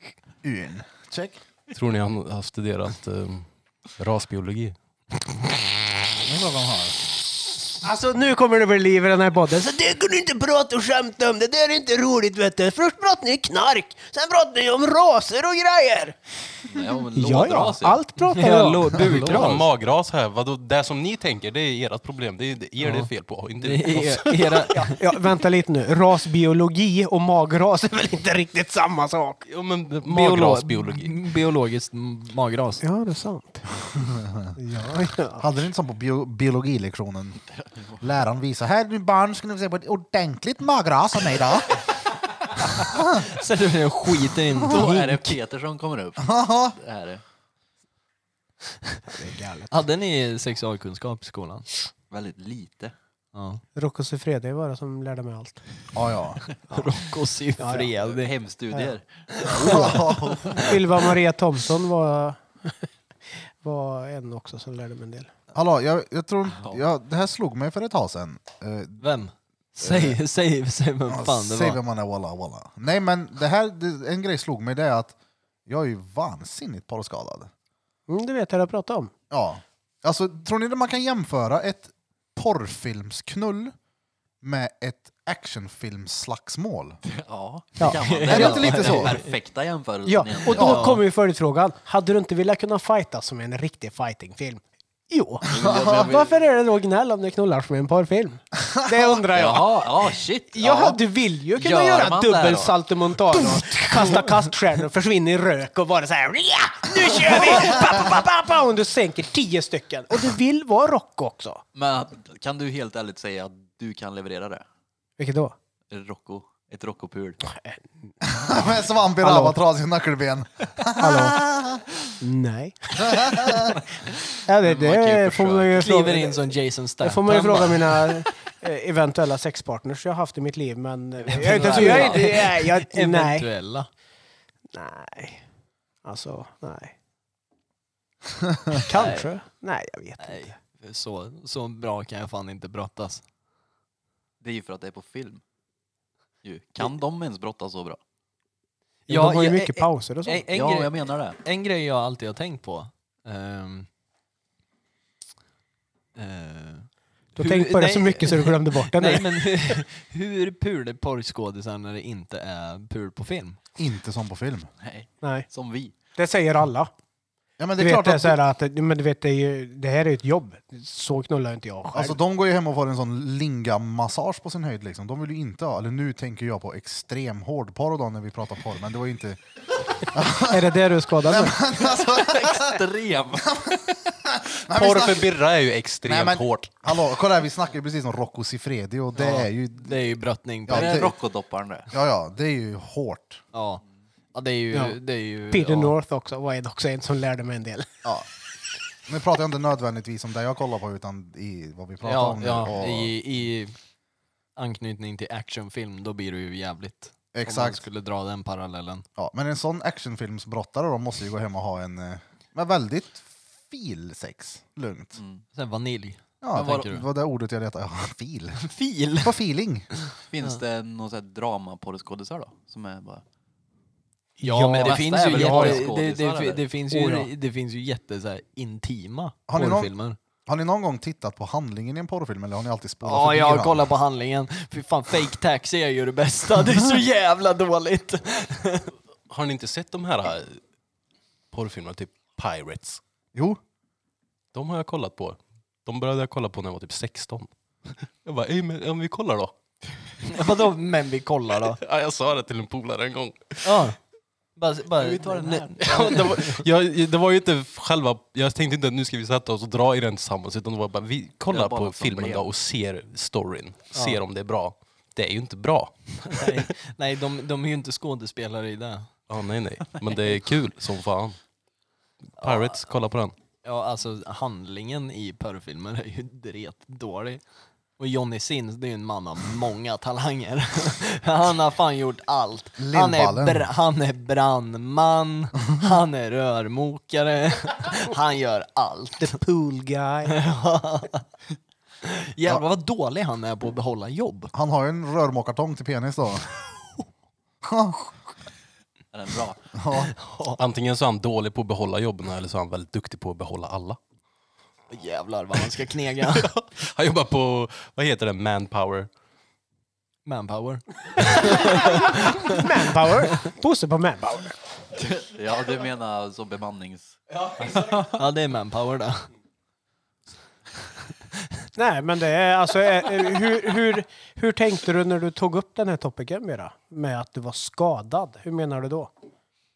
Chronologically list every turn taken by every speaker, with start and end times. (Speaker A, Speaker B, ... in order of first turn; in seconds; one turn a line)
Speaker A: 0.4-1.4
Speaker B: 1.7-4.8
Speaker A: 6.2-7.0
Speaker C: 7.8-16.2
Speaker D: 16.7-18.1
Speaker C: 17.1-19.5
Speaker E: 18.2-19.6
Speaker B: 19.1-24.7
Speaker E: 22.8-25.0
Speaker C: 24.8-29.4
Speaker B: 29.4-31.3
Speaker E: 30.1-32.8
Speaker C: 32.8-33.6
Speaker A: 34.0-34.5
Speaker C: 34.6-35.4
Speaker A: 35.4-37.4
Speaker D: 37.5-38.0
Speaker A: 38.0-41.8
Speaker A: 42.9-43.2
Speaker E: 43.1-45.4
Speaker D: 44.6-47.2
Speaker A: 46.2-46.8
Speaker C: 49.1-49.8
Speaker E: 49.7-51.7
Speaker D: 52.1-52.9
Speaker E: 53.3-53.6
Speaker C: 53.8-55.6
Speaker A: 55.9-56.4
Speaker E: 56.7-58.3
Speaker C: 57.6-57.9
Speaker D: 58.0-60.1
Speaker E: 59.3-60.0
Speaker C: 59.5-60.0
Speaker A: 59.6-60.7
Speaker C: 60.5-62.9
Speaker C: 63.6-65.3
Speaker A: 65.5-69.0
Speaker D: 66.6-66.8
Speaker E: 69.0-71.8
Speaker A: 69.8-70.2
Speaker A: 71.1-75.1
Speaker A: 75.7-77.5
Speaker C: 78.1-79.1
Speaker A: 79.3-83.7
Speaker A: 84.4-87.0
Speaker D: 87.0-90.9
Speaker E: 87.9-89.3
Speaker A: 88.3-89.2
Speaker C: 90.0-111.6
Speaker E: 90.5-91.0
Speaker D: 95.5-96.3
Speaker A: 95.6-96.0
Speaker D: 99.3-101.0
Speaker D: 101.5-103.6
Speaker E: 103.9-104.3
Speaker D: 111.7-114.6
Speaker C: 115.2-115.5
Speaker D: 115.9-117.4
Speaker C: 117.5-117.8
Speaker A: 118.2-121.8
Speaker C: 119.2-119.6
Speaker C: 121.0-121.4
Speaker C: 122.2-123.8
Speaker A: 123.0-123.7
Speaker C: 124.4-133.5
Speaker D: 124.6-125.7
Speaker E: 125.7-128.2
Speaker E: 131.2-133.9
Speaker D: 131.7-132.2
Speaker C: 134.7-135.4
Speaker C: 136.0-136.9
Speaker C: 138.7-140.5
Speaker E: 138.9-139.3
Speaker E: 140.2-143.2
Speaker D: 144.4-145.4
Speaker D: 146.4-148.0
Speaker C: 149.1-150.4
Speaker E: 149.1-153.9
Speaker D: 150.5-151.4
Speaker E: 156.2-163.6
Speaker C: 157.4-159.8
Speaker A: 163.8-164.7
Speaker D: 164.8-165.9
Speaker C: 166.2-166.9
Speaker A: 167.6-168.4
Speaker C: 167.8-172.2
Speaker A: 171.9-179.4
Speaker A: 180.0-182.8
Speaker C: 180.5-181.6
Speaker D: 181.8-183.8
Speaker A: 183.5-185.3
Speaker B: 184.7-186.8
Speaker A: 186.0-190.0
Speaker E: 189.1-191.1
Speaker A: 190.7-191.1
Speaker D: 190.7-191.9
Speaker A: 191.9-193.4
Speaker E: 193.5-193.8
Speaker E: 194.3-196.0
Speaker C: 194.7-195.0
Speaker C: 195.5-197.9
Speaker A: 199.1-203.2
Speaker E: 202.0-203.7
Speaker E: 204.6-209.1
Speaker A: 207.3-207.8
Speaker A: 209.2-215.2
Speaker D: 215.2-215.4
Speaker E: 215.5-217.1
Speaker A: 216.4-218.7
Speaker E: 218.6-219.3
Speaker A: 219.2-219.9
Speaker E: 220.0-220.6
Speaker D: 220.3-223.2
Speaker C: 224.4-225.7
Speaker E: 224.4-230.2
Speaker D: 224.8-226.7
Speaker B: 225.4-225.8
Speaker C: 226.9-227.3
Speaker A: 229.5-229.9
Speaker A: 230.5-233.9
Speaker E: 233.0-238.9
Speaker B: 239.3-240.6
Speaker B: 241.5-243.0
Speaker A: 243.3-243.6
Speaker B: 244.5-249.5
Speaker E: 250.2-251.8
Speaker B: 251.6-253.9
Speaker E: 253.6-254.0
Speaker E: 254.6-256.6
Speaker D: 255.0-256.2
Speaker B: 255.8-266.5
Speaker D: 261.5-262.5
Speaker E: 263.9-264.2
Speaker E: 266.3-269.1
Speaker B: 269.3-271.4
Speaker B: 272.4-273.3
Speaker E: 272.4-272.9
Speaker E: 273.6-277.4
Speaker E: 278.0-289.4
Speaker A: 282.8-283.7
Speaker C: 289.2-290.4
Speaker E: 290.2-291.2
Speaker E: 292.0-294.5
Speaker A: 294.5-296.5
Speaker A: 297.6-298.0
Speaker D: 299.1-299.6
Speaker A: 299.7-300.1
Speaker E: 300.1-300.6
Speaker B: 300.6-304.0
Speaker E: 304.9-306.5
Speaker B: 306.3-309.1
Speaker E: 310.2-313.1
Speaker C: 311.9-314.5
Speaker D: 314.9-318.2
Speaker E: 317.7-319.3
Speaker C: 321.8-329.1